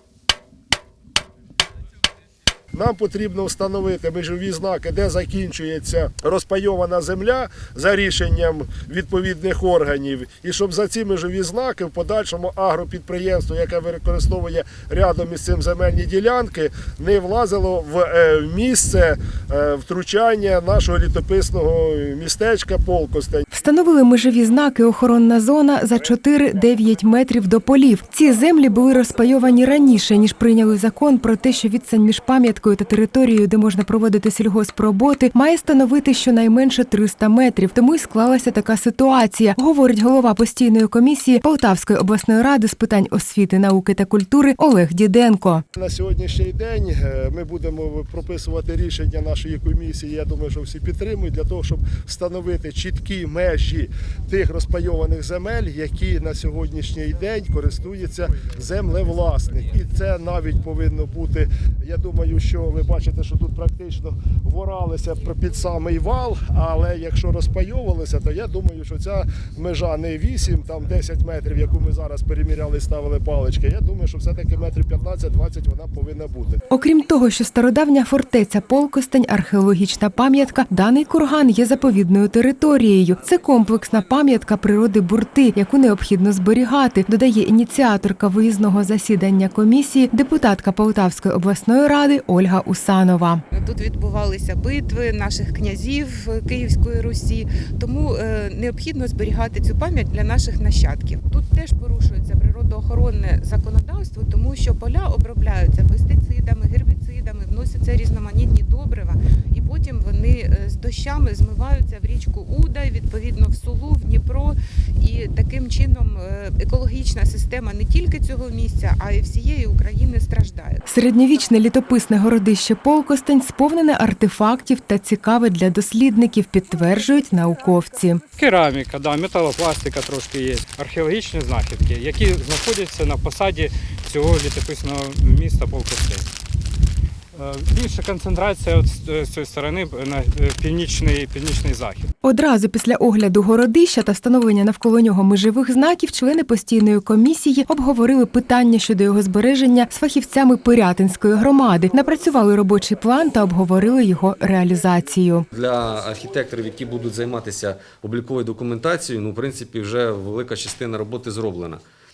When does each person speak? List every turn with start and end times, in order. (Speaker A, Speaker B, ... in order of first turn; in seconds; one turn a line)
Speaker A: 2.7-23.4
Speaker B: 23.5-45.6
Speaker A: 45.7-76.6
Speaker B: 76.7-93.4
Speaker C: 93.5-120.8
Speaker B: 120.9-128.2
Speaker D: 128.3-136.3
Speaker D: 137.3-142.1
Speaker B: 142.2-155.4
Speaker E: 155.5-161.8